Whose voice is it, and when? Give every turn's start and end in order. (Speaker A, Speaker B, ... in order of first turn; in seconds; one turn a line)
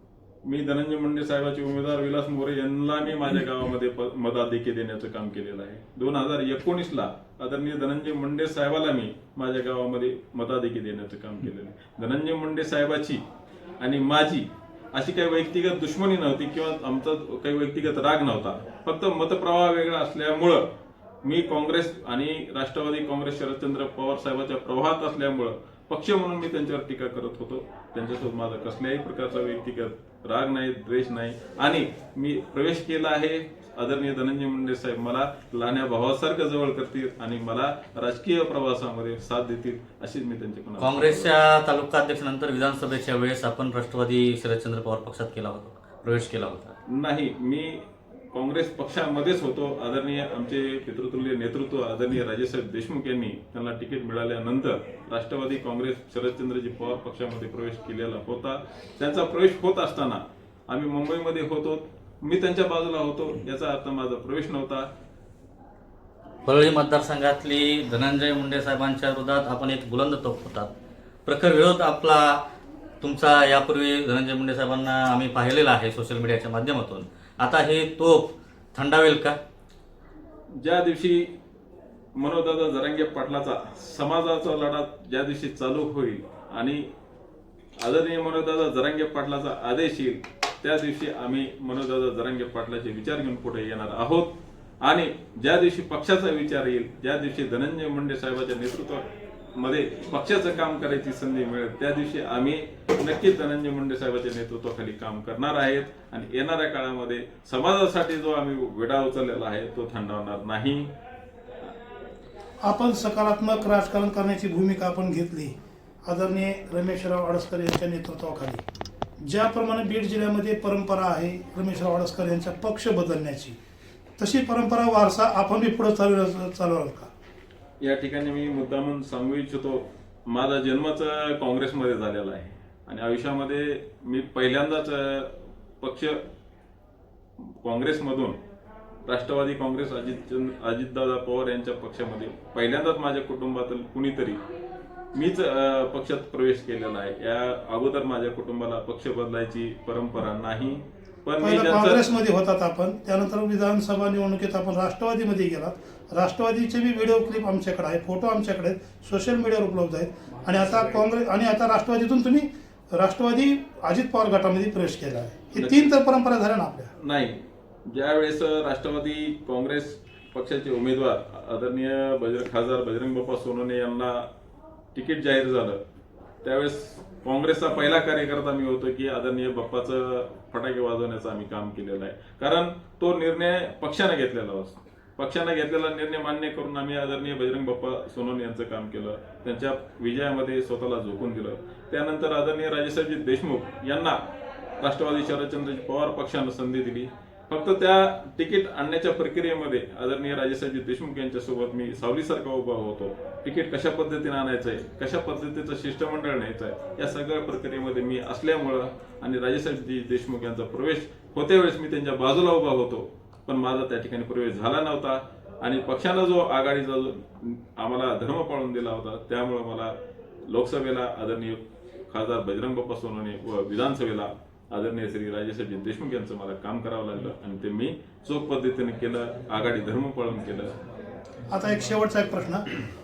Speaker A: 0.5-13.2
Speaker A: 13.8-20.6
Speaker A: 21.2-41.3
Speaker B: 40.8-46.8
Speaker A: 46.9-47.8
Speaker A: 48.3-64.9
Speaker B: 66.5-70.7
Speaker B: 71.2-72.4
Speaker B: 73.0-79.4
Speaker A: 80.6-81.3
Speaker A: 82.2-86.8
Speaker A: 87.8-94.3
Speaker A: 94.8-99.0
Speaker A: 99.6-110.9
Speaker C: 112.7-118.6
Speaker C: 119.2-123.6
Speaker C: 124.2-127.1
Speaker A: 127.8-136.2
Speaker A: 137.6-138.4
Speaker A: 139.1-144.4
Speaker A: 145.1-152.1
Speaker C: 151.4-166.9
Speaker A: 165.5-165.9
Speaker A: 167.0-174.3
Speaker A: 174.9-175.8
Speaker A: 176.4-194.2
Speaker A: 194.8-219.9
Speaker A: 220.5-230.8
Speaker C: 231.5-232.6